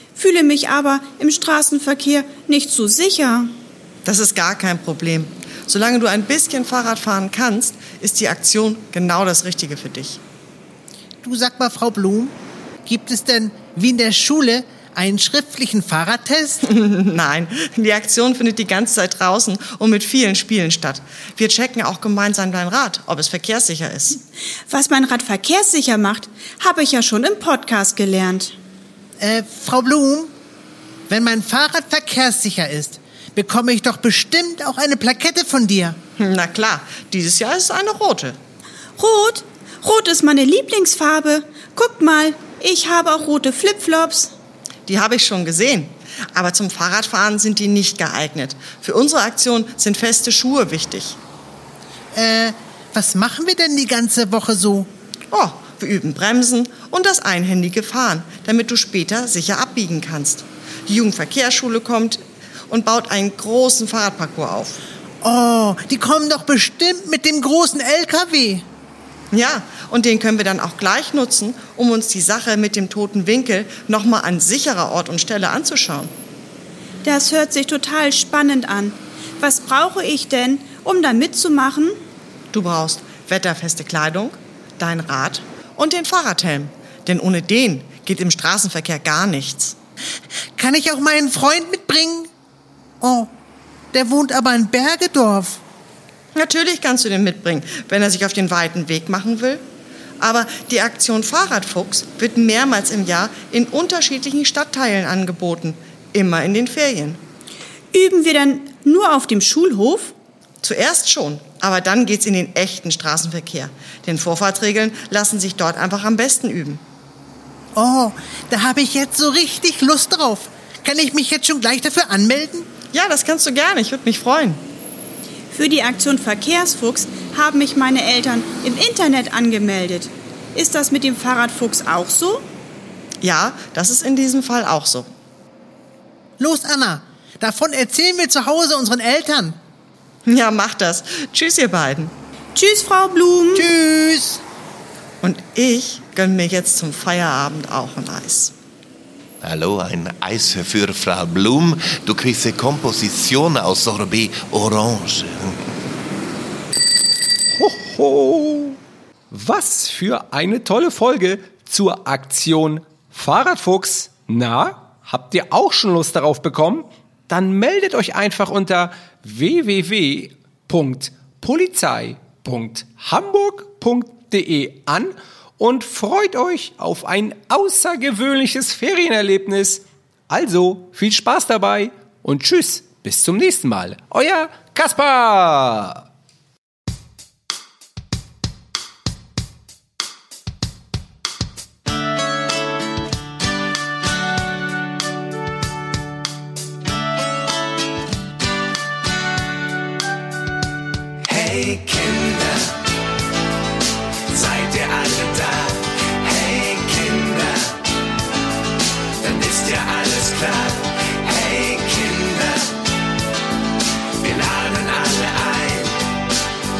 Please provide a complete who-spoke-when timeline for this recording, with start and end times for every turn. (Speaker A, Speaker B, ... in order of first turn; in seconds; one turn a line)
Speaker A: 0.1-3.5
Speaker B: 4.0-10.2
Speaker C: 11.2-16.6
Speaker B: 16.6-24.2
Speaker A: 24.7-28.6
Speaker C: 29.2-30.3
Speaker C: 31.1-36.0
Speaker B: 36.2-38.4
Speaker A: 39.0-44.3
Speaker B: 44.9-51.2
Speaker C: 52.1-54.9
Speaker B: 55.3-64.8
Speaker C: 65.2-68.7
Speaker B: 69.3-76.1
Speaker A: 77.0-82.0
Speaker B: 82.5-89.8
Speaker C: 90.6-92.3
Speaker C: 93.0-93.3
Speaker C: 93.9-95.6
Speaker B: 96.3-99.6
Speaker B: 100.2-107.2
Speaker A: 107.9-110.1
Speaker B: 110.6-116.8
Speaker C: 117.8-122.7
Speaker B: 122.9-124.6
Speaker A: 125.5-132.4
Speaker B: 133.2-135.1
Speaker C: 136.4-139.6
Speaker B: 140.3-142.1
Speaker A: 142.6-143.7
Speaker C: 143.6-144.4
Speaker B: 145.2-148.5
Speaker D: 149.4-155.6
Speaker E: 157.6-158.8
Speaker E: 159.3-186.0
Speaker E: 201.3-202.6
Speaker E: 204.3-207.6
Speaker E: 209.2-212.6
Speaker E: 214.2-215.9